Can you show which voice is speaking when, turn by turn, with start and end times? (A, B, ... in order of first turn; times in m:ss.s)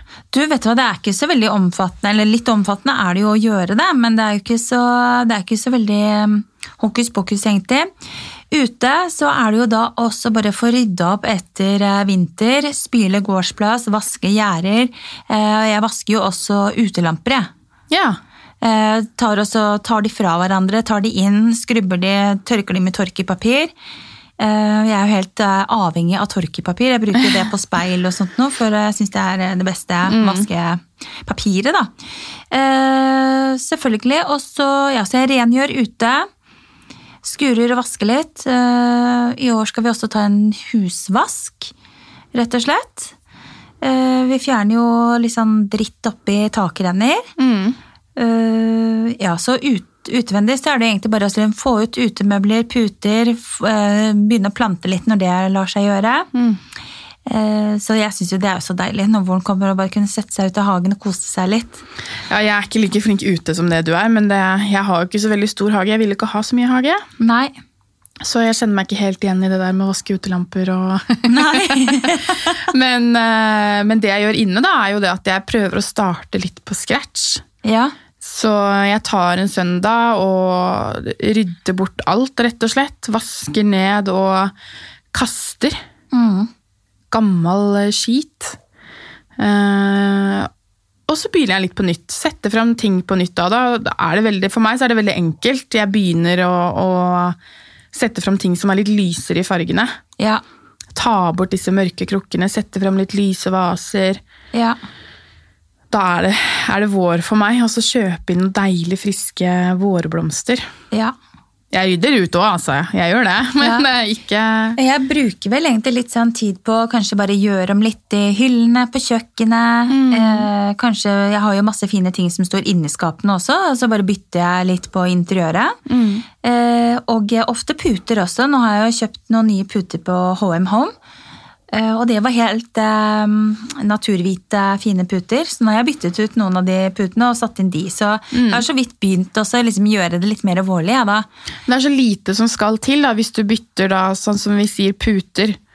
0:00.3-0:07.9 A
0:08.5-0:17.5 A
0:17.9-0:18.2 B
0:18.6-0:23.7 A
0:24.4-0:31.9 A
0:30.0-0:30.5 B
0:32.5-0:36.2 A
0:37.2-0:41.7 A
0:42.3-0:43.1 A
0:43.8-0:47.3 A
0:47.4-0:47.8 B
0:48.2-0:56.3 A
0:56.3-0:56.6 B
0:57.2-1:01.8 A
1:02.3-1:07.0 B
1:07.2-1:07.6 A
1:08.2-1:17.4 B
1:11.3-1:12.5 A
1:17.6-1:17.9 A
1:18.2-1:24.5 B
1:25.1-1:25.8 B
1:26.1-1:26.5 A
1:27.1-1:28.6 B
1:29.4-1:30.5 B
1:31.1-1:37.4 B
1:37.9-1:39.9 B
1:40.9-1:44.2 B
1:44.5-1:44.8 A
1:45.9-1:50.7 B
1:51.7-1:54.8 B
1:53.6-1:53.8 A
1:54.8-2:05.8 A
1:59.9-2:00.5 B
2:05.9-2:06.2 B
2:06.4-2:10.9 A
2:11.7-2:21.3 A
2:18.3-2:18.6 B
2:21.7-2:25.6 B